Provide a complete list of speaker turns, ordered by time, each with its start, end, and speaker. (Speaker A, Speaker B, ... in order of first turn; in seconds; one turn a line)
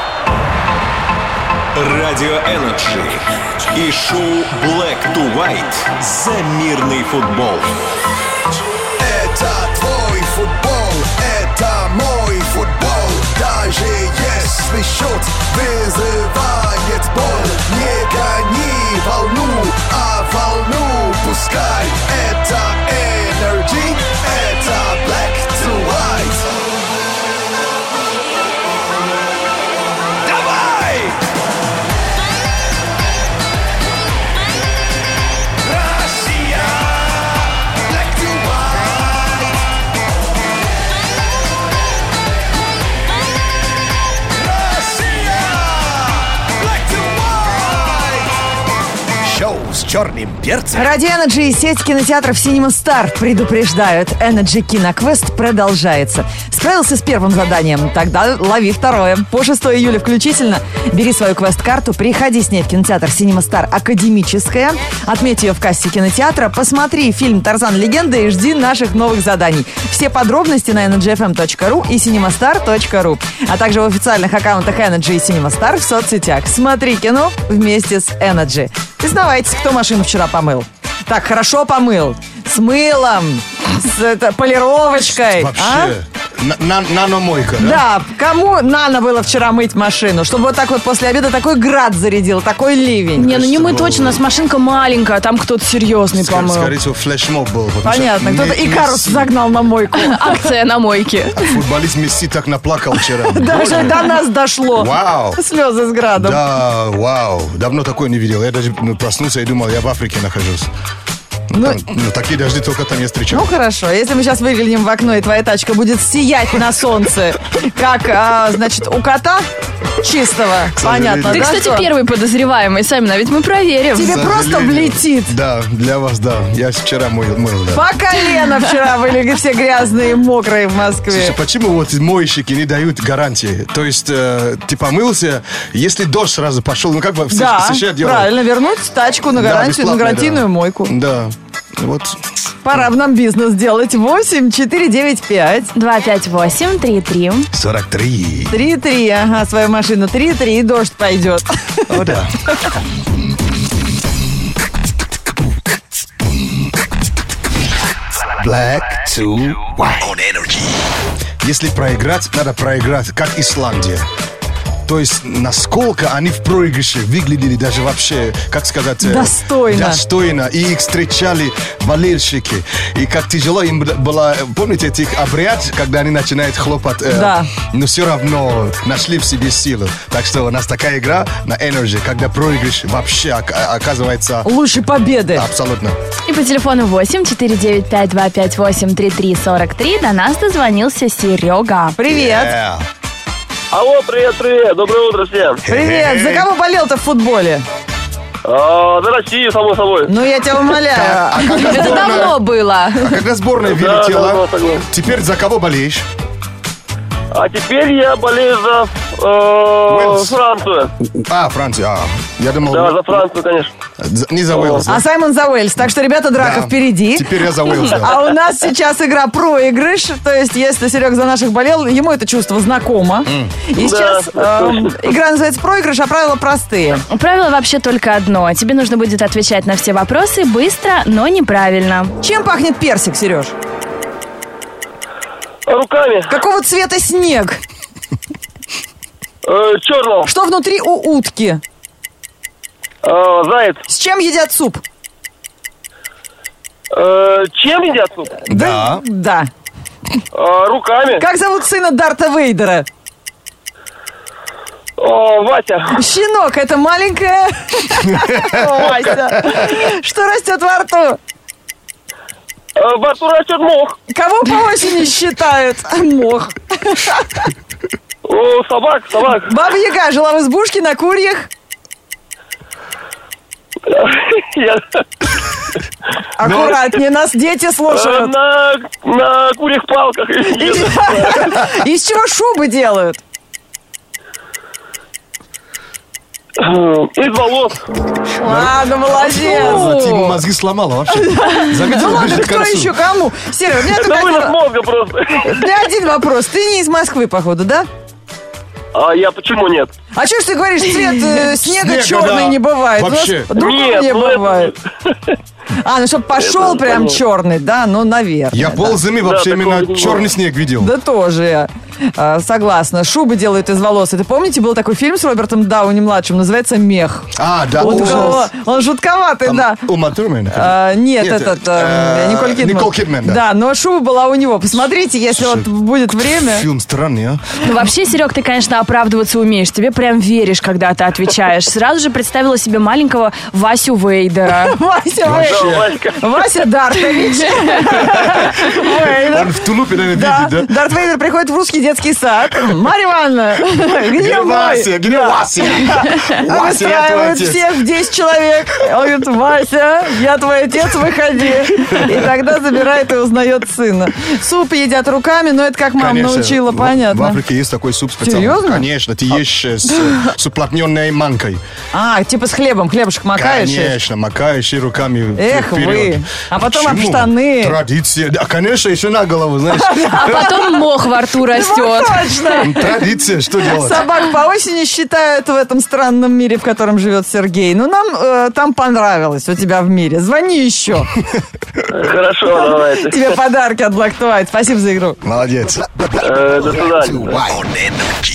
Speaker A: 1.8-3.2
Speaker B: 3.7-4.1
Speaker A: 3.8-7.7
Speaker B: 5.2-6.6
Speaker B: 7.2-7.6
Speaker B: 9.0-26.5
Speaker B: 30.3-31.2
Speaker B: 36.1-36.8
Speaker B: 37.9-39.4
Speaker B: 44.5-48.2
Speaker B: 49.2-50.9
Speaker C: 50.7-86.0
Speaker B: 85.1-87.8
Speaker C: 87.6-93.3
Speaker D: 93.2-96.8
Speaker B: 93.2-94.2
Speaker B: 96.1-99.3
Speaker C: 97.8-100.5
Speaker D: 99.9-101.6
Speaker B: 101.3-105.4
Speaker C: 103.1-106.4
Speaker B: 106.1-110.7
Speaker B: 111.5-113.4
Speaker C: 111.5-111.8
Speaker C: 113.3-119.5
Speaker C: 120.0-121.9
Speaker B: 120.8-121.6
Speaker D: 121.2-124.2
Speaker C: 123.9-125.3
Speaker B: 124.0-127.8
Speaker C: 127.7-131.3
Speaker B: 131.1-138.3
Speaker C: 137.3-140.9
Speaker B: 139.3-142.9
Speaker C: 142.6-145.7
Speaker D: 145.7-147.5
Speaker B: 147.5-148.5
Speaker C: 148.5-151.9
Speaker B: 151.9-152.3
Speaker B: 158.2-160.6
Speaker B: 161.4-164.0
Speaker B: 164.8-184.5
Speaker C: 169.0-170.0
Speaker C: 177.1-177.5
Speaker C: 184.4-185.4
Speaker B: 185.3-185.9
Speaker D: 186.2-192.0
Speaker C: 191.9-192.5
Speaker B: 192.1-192.8
Speaker E: 193.7-195.6
Speaker B: 195.6-196.5
Speaker C: 195.7-197.6
Speaker E: 198.4-200.1
Speaker C: 200.1-202.2
Speaker B: 200.8-202.4
Speaker D: 201.4-203.2
Speaker B: 203.0-206.1
Speaker E: 203.6-204.8
Speaker E: 207.3-210.9
Speaker B: 209.9-210.3
Speaker B: 211.0-213.2
Speaker E: 212.7-213.7
Speaker B: 214.0-215.0
Speaker E: 214.5-214.9
Speaker C: 214.9-227.0
Speaker B: 216.4-218.2
Speaker B: 223.2-223.5
Speaker E: 223.8-224.9
Speaker D: 227.1-232.1
Speaker C: 232.2-233.5
Speaker E: 235.7-236.3
Speaker C: 236.3-237.6
Speaker E: 239.4-240.3
Speaker C: 240.2-241.6
Speaker E: 243.0-243.8
Speaker C: 243.9-244.8
Speaker E: 246.9-248.4
Speaker C: 248.4-249.5
Speaker B: 248.5-249.0
Speaker E: 250.3-251.2
Speaker C: 251.2-252.9
Speaker E: 255.0-255.9
Speaker C: 255.9-261.2
Speaker E: 262.8-263.9
Speaker C: 264.1-267.5
Speaker E: 268.3-269.4
Speaker C: 269.2-271.5
Speaker E: 273.9-274.8
Speaker C: 276.4-278.3
Speaker B: 276.4-276.8
Speaker E: 277.9-281.5
Speaker C: 280.5-283.2
Speaker E: 286.6-287.8
Speaker C: 288.4-289.9
Speaker B: 288.4-292.9
Speaker D: 289.4-290.4
Speaker C: 291.1-294.5
Speaker E: 293.9-295.7
Speaker C: 295.4-297.9
Speaker E: 298.9-299.9
Speaker C: 300.1-304.7
Speaker D: 301.0-301.3
Speaker B: 301.5-303.5
Speaker E: 303.5-305.2
Speaker C: 305.7-309.0
Speaker E: 306.4-307.2
Speaker B: 308.5-310.9
Speaker E: 309.2-310.3
Speaker C: 310.8-319.9
Speaker B: 317.3-318.5
Speaker D: 317.9-318.3
Speaker B: 319.4-323.4
Speaker C: 320.5-326.7
Speaker B: 325.3-327.4
Speaker D: 327.6-334.8
Speaker C: 334.5-357.4
Speaker B: 335.2-335.9
Speaker E: 335.4-336.2
Speaker B: 339.1-340.7
Speaker B: 344.1-347.8
Speaker B: 356.0-361.6
Speaker C: 358.2-358.8
Speaker C: 361.9-364.0
Speaker B: 363.3-370.5
Speaker C: 365.4-367.8
Speaker C: 369.7-370.8
Speaker D: 370.1-372.7
Speaker C: 371.4-373.0
Speaker B: 372.6-374.1
Speaker C: 373.6-381.1
Speaker E: 381.9-383.4
Speaker C: 382.5-385.2
Speaker B: 385.2-386.2
Speaker E: 386.2-387.5
Speaker B: 387.0-388.1